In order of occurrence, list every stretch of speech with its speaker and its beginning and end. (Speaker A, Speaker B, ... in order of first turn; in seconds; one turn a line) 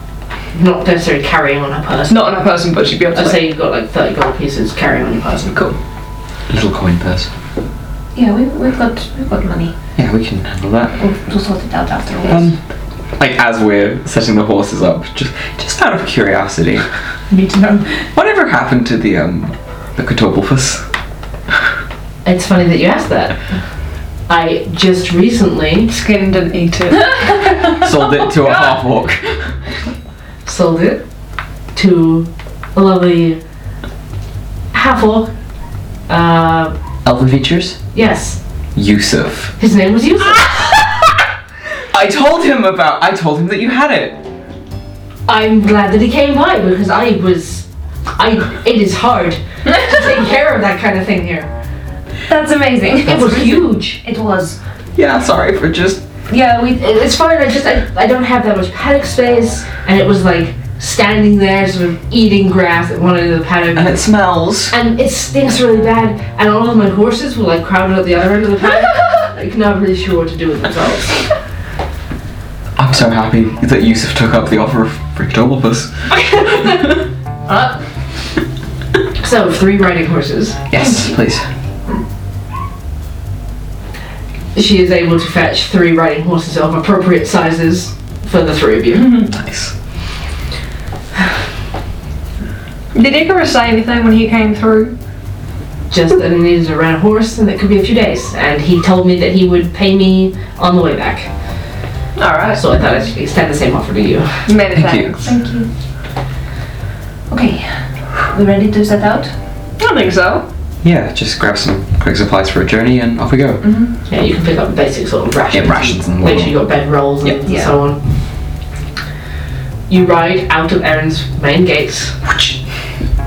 Speaker A: 0.5-2.3
Speaker B: 2.1-3.4
Speaker A: 3.1-5.6
Speaker C: 6.5-7.3
Speaker D: 8.1-9.7
Speaker C: 9.9-10.9
Speaker D: 11.0-12.5
Speaker C: 12.3-12.6
Speaker C: 13.2-16.9
Speaker D: 17.3-18.1
Speaker C: 18.1-20.8
Speaker A: 22.2-23.4
Speaker A: 24.3-25.9
Speaker B: 25.9-27.8
Speaker C: 27.8-29.6
Speaker A: 30.4-31.0
Speaker A: 31.7-33.4
Speaker A: 34.7-35.3
Speaker A: 36.1-36.7
Speaker C: 37.0-37.8
Speaker A: 37.9-38.4
Speaker C: 38.7-39.5
Speaker A: 39.6-40.9
Speaker C: 41.9-44.2
Speaker A: 45.3-51.5
Speaker D: 52.3-54.6
Speaker A: 53.0-54.0
Speaker C: 54.9-56.0
Speaker D: 56.3-56.8
Speaker A: 56.6-64.0
Speaker C: 63.7-64.7
Speaker A: 64.7-71.3
Speaker C: 72.8-75.9
Speaker A: 76.4-76.8
Speaker A: 77.5-77.8
Speaker A: 79.2-80.8
Speaker C: 80.7-81.4
Speaker A: 84.5-89.3
Speaker C: 89.3-89.7
Speaker B: 92.9-94.9
Speaker A: 95.9-101.3
Speaker B: 102.2-102.6
Speaker A: 102.5-104.5
Speaker B: 104.5-105.3
Speaker C: 104.7-105.1
Speaker D: 105.2-105.7
Speaker D: 107.3-109.3
Speaker B: 109.8-110.5
Speaker C: 110.8-113.7
Speaker D: 113.6-113.9
Speaker A: 114.1-118.0
Speaker C: 115.5-116.6
Speaker D: 117.5-117.7
Speaker A: 119.9-122.2